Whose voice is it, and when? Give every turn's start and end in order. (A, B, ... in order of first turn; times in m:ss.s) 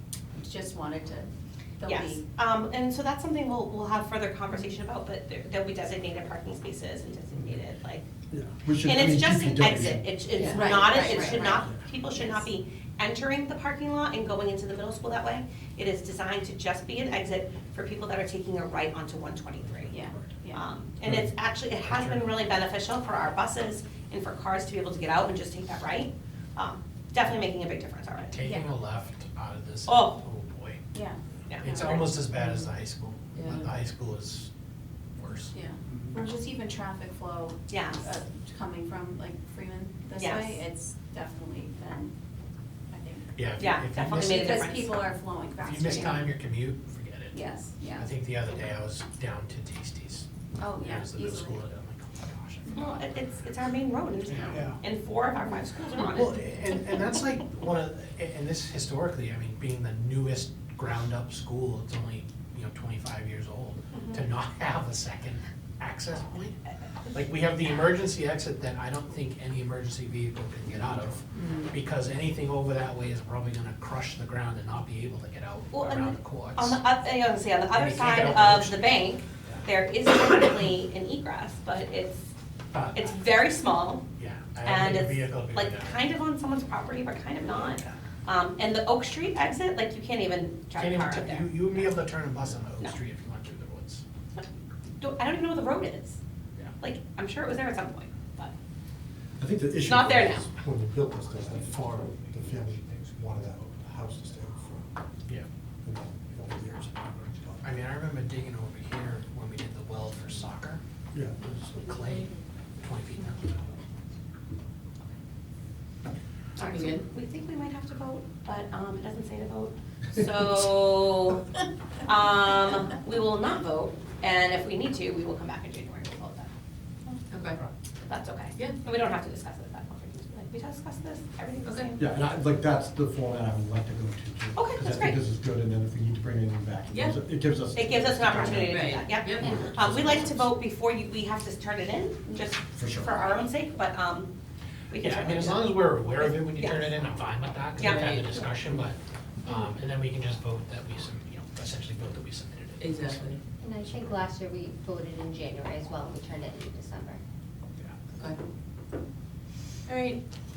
0:00.3-0:02.2 A
0:01.9-0:08.1 B
0:08.3-0:10.1 C
0:08.8-0:20.0 B
0:10.4-0:10.7 D
0:10.5-0:12.5 A
0:10.8-0:11.8 C
0:19.9-0:20.7 A
0:20.5-0:28.3 B
0:21.8-0:22.3 E
0:28.3-0:30.8 E
0:28.4-0:28.7 A
0:29.9-0:30.2 B
0:30.9-0:32.1 A
0:31.5-0:32.1 B
0:31.6-0:34.5 E
0:33.3-0:33.7 D
0:35.2-0:36.1 E
0:35.5-0:42.1 A
0:37.7-0:38.0 B
0:40.2-0:40.6 B
0:42.9-0:43.4 A
0:43.4-0:44.4 E
0:43.6-0:45.0 B
0:44.0-0:46.3 A
0:45.6-0:53.1 E
0:47.3-0:48.2 A
0:50.6-0:51.7 A
0:52.7-0:53.1 A
0:52.7-0:56.4 B
0:54.3-0:54.8 E
0:55.9-1:06.6 E
1:03.9-1:04.2 B
1:07.1-1:16.8 E
1:11.3-1:11.7 D
1:15.7-1:22.3 B
1:17.7-1:19.7 E
1:22.7-1:23.2 E
1:23.0-1:24.0 B
1:24.2-1:26.0 E
1:24.6-1:31.5 B
1:27.4-1:28.0 E
1:30.8-1:34.0 E
1:35.0-1:36.2 B
1:36.8-1:38.5 B
1:39.4-1:44.9 C
1:39.8-1:40.5 B
1:41.4-1:43.4 E
1:45.8-1:47.7 C
1:47.6-1:50.8 E
1:51.1-1:51.4 C
1:51.4-1:53.7 E
1:51.4-1:52.3 F
1:56.6-2:01.4 B
1:56.6-1:57.1 D
2:02.0-2:06.5 B
2:07.3-2:07.6 D
2:08.1-2:12.1 B
2:11.6-2:11.9 D
2:12.0-2:20.6 C
2:14.6-2:15.2 B
2:16.9-2:17.2 D
2:17.7-2:24.3 B
2:18.7-2:19.5 D
2:22.7-2:23.2 C
2:24.9-2:26.9 B
2:24.9-2:33.3 E
2:27.8-2:28.2 B
2:27.8-2:28.7 D
2:29.4-2:29.8 F
2:32.8-2:33.4 D
2:33.6-2:37.2 F
2:39.9-2:40.2 D